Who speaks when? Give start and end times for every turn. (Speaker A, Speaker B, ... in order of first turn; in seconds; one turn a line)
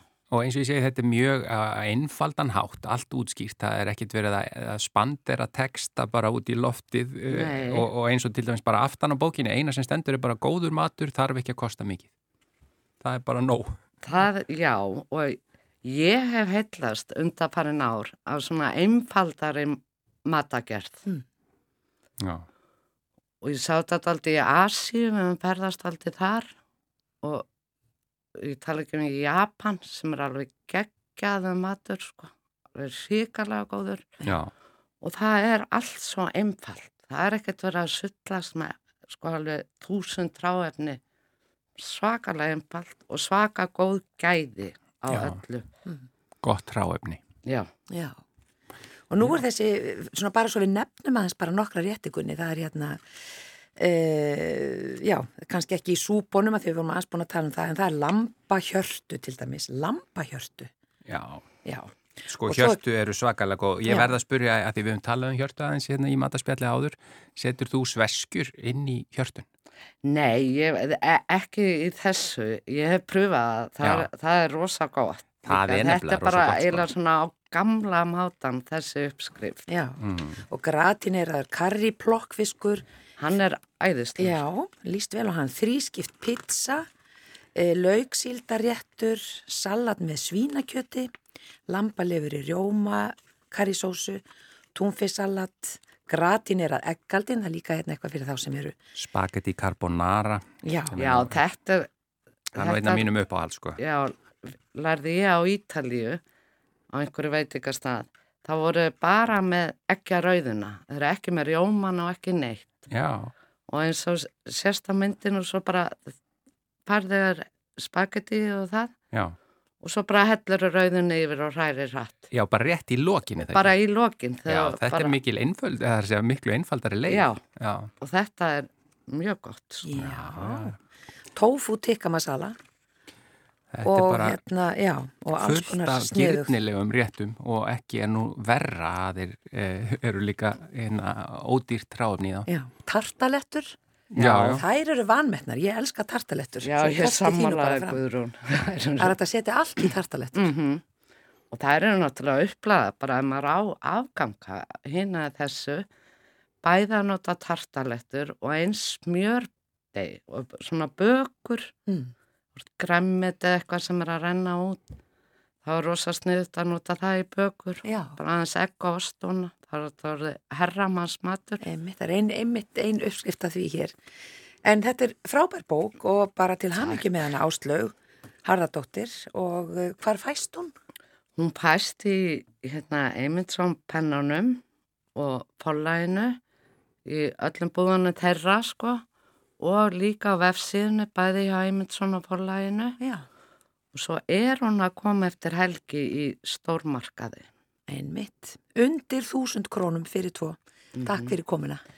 Speaker A: 0.3-12.1
Speaker B: 7.3-7.9
Speaker A: 13.0-13.7
Speaker B: 14.0-21.1
Speaker B: 23.4-26.5
Speaker B: 27.2-27.5
Speaker B: 28.4-34.1
Speaker A: 34.2-34.5
Speaker B: 35.0-41.0
Speaker B: 41.8-45.7
Speaker A: 45.1-45.4
Speaker A: 46.4-47.2
Speaker C: 47.9-48.2
Speaker C: 49.1-53.0
Speaker C: 53.8-60.7
Speaker A: 61.1-61.4
Speaker C: 61.6-61.9
Speaker A: 62.3-69.5
Speaker C: 62.4-62.8
Speaker C: 63.8-64.1
Speaker B: 70.0-79.7
Speaker A: 73.8-74.1
Speaker A: 75.5-76.9
Speaker C: 79.7-82.8
Speaker A: 80.0-80.4
Speaker B: 83.2-84.4
Speaker C: 84.2-86.9
Speaker C: 87.5-91.1
Speaker C: 91.7-94.2
Speaker C: 94.8-98.8
Speaker A: 99.0-101.4
Speaker C: 100.6-101.0
Speaker B: 101.0-101.9
Speaker A: 102.5-103.8
Speaker B: 102.6-103.1
Speaker B: 103.8-106.2
Speaker B: 106.9-112.8
Speaker A: 112.9-113.3
Speaker B: 113.7-116.2
Speaker B: 116.9-118.9
Speaker B: 119.8-122.3
Speaker A: 122.3-123.7
Speaker B: 123.5-125.2
Speaker A: 124.5-127.9
Speaker B: 127.1-127.4
Speaker B: 128.0-129.9
Speaker C: 129.8-130.8
Speaker A: 130.0-130.7
Speaker C: 131.3-132.6
Speaker A: 133.7-134.4
Speaker C: 133.8-136.6
Speaker A: 135.4-142.5
Speaker C: 142.5-143.8
Speaker B: 144.2-144.6
Speaker A: 144.2-144.7
Speaker C: 144.4-148.0
Speaker B: 146.6-149.2
Speaker C: 149.0-150.5
Speaker B: 149.8-150.8
Speaker B: 151.5-155.9
Speaker B: 156.6-161.7
Speaker B: 162.7-164.8
Speaker B: 165.6-171.6
Speaker C: 167.8-168.2
Speaker C: 171.6-173.9
Speaker C: 174.6-180.7
Speaker B: 181.4-184.6
Speaker B: 185.2-186.4
Speaker B: 187.1-189.0
Speaker B: 189.6-193.0
Speaker B: 193.9-197.5
Speaker C: 197.9-201.8
Speaker B: 201.0-201.3